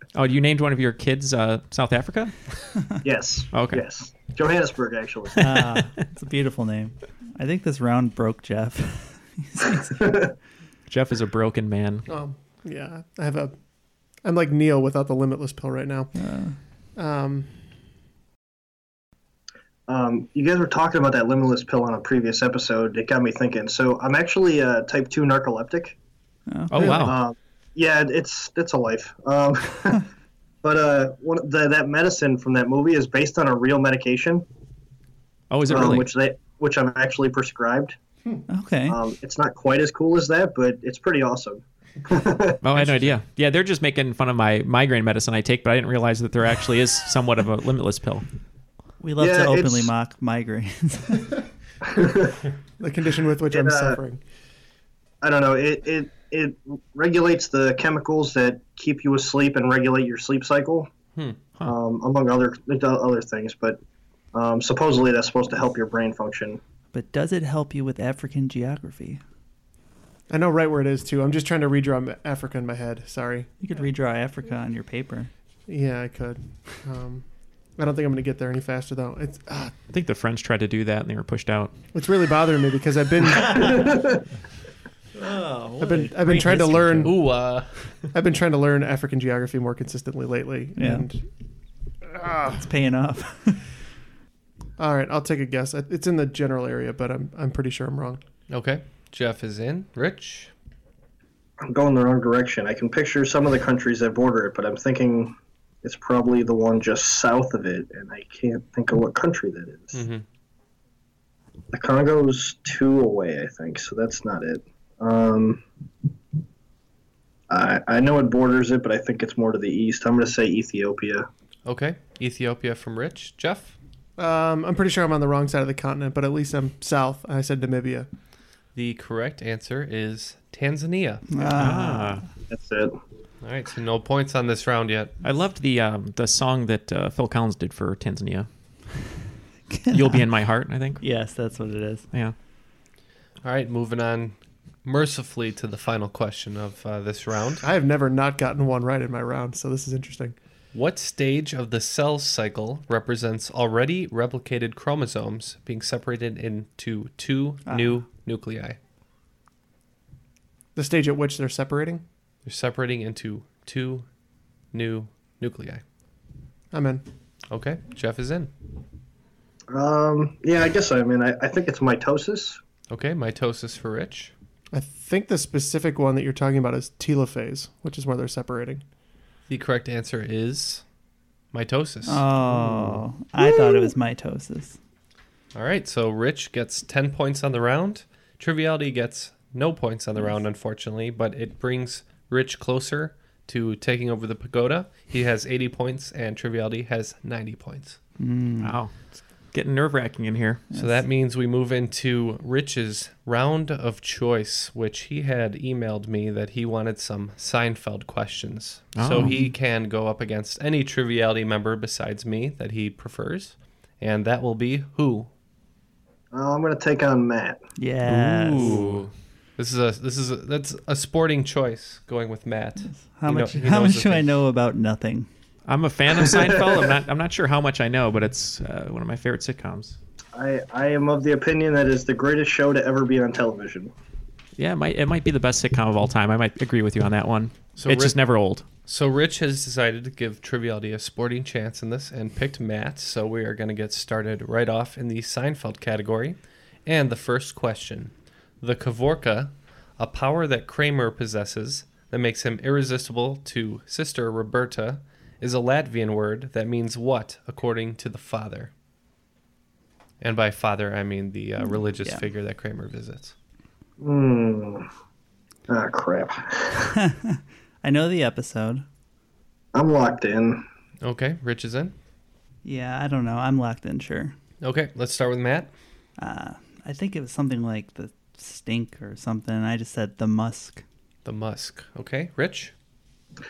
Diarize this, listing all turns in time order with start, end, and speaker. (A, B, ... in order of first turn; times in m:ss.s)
0:00.1-0:02.3 A
0:03.0-0:05.5 B
0:03.5-0:03.8 A
0:05.4-0:10.1 C
0:10.0-0:10.3 B
0:10.9-0:12.0 A
0:12.1-0:13.5 D
0:14.2-0:16.1 D
0:16.1-0:16.6 C
0:17.0-0:17.6 D
0:19.9-0:26.0 B
0:26.5-0:27.0 C
0:26.7-0:27.2 A
0:26.8-0:30.0 B
0:30.6-0:34.4 B
0:35.5-0:36.1 A
0:35.7-0:38.0 B
0:38.5-0:39.0 C
0:38.9-0:42.6 B
0:42.6-0:48.2 A
0:49.0-0:51.3 C
0:49.2-0:49.9 B
0:51.9-0:52.4 B
0:52.8-0:54.2 D
0:53.5-0:54.0 B
0:55.2-1:00.9 B
1:01.6-1:03.8 B
1:04.3-1:06.6 B
1:06.9-1:09.2 C
1:10.3-1:13.5 D
1:13.6-1:15.3 C
1:15.7-1:17.2 D
1:17.8-1:19.7 D
1:19.9-1:21.7 A
1:21.9-1:24.0 D
1:25.2-1:27.1 C
1:25.8-1:27.2 D
1:27.0-1:27.9 E
1:28.1-1:31.2 D
1:30.8-1:31.0 C
1:32.1-1:32.5 D
1:32.4-1:33.6 C
1:34.8-1:38.2 D
1:38.5-1:40.5 E
1:41.6-1:50.0 B
1:49.9-1:50.2 E
1:51.7-1:55.6 B
1:57.5-2:01.3 B
2:01.6-2:03.8 E
2:04.2-2:08.1 D
2:08.7-2:11.3 E
2:11.3-2:12.2 C
2:11.5-2:12.2 A
2:12.5-2:13.0 B
2:13.4-2:15.1 E
2:15.2-2:18.5 A
2:19.7-2:20.2 C
2:19.9-2:21.0 A
2:21.0-2:22.1 C
2:23.4-2:27.7 E
2:27.6-2:30.4 D
2:30.7-2:38.8 E
2:37.7-2:38.0 C
2:40.7-2:42.0 D
2:42.4-2:44.0 E
2:44.7-2:45.8 E
2:46.7-2:47.0 D
2:47.5-2:48.5 E
2:49.7-2:52.6 B
2:52.9-2:54.3 E
2:54.7-2:58.8 D
2:59.5-3:00.8 E
3:01.5-3:02.2 E
3:02.1-3:04.8 C
3:02.6-3:02.8 A
3:05.5-3:18.0 E
3:18.2-3:18.7 C
3:18.6-3:19.0 A
3:19.5-3:20.6 A
3:20.7-3:21.0 C
3:20.7-3:35.3 E
3:29.0-3:29.4 A
3:36.3-3:37.6 B
3:37.8-3:38.8 C
3:38.0-3:39.1 A
3:39.6-3:44.3 E
3:42.9-3:45.3 C
3:45.7-3:50.0 A
3:46.2-3:46.9 B
3:50.3-3:53.9 B
3:54.6-3:58.6 A
3:57.8-3:58.2 E
3:58.8-4:18.7 E
4:20.2-4:23.3 E
4:24.0-4:24.9 B
4:25.7-4:26.9 B
4:27.0-4:28.8 C
4:29.7-4:30.6 B
4:31.0-4:31.9 E
4:32.6-4:34.3 C
4:34.6-4:35.7 E
4:36.2-4:40.8 C
4:41.2-4:42.7 E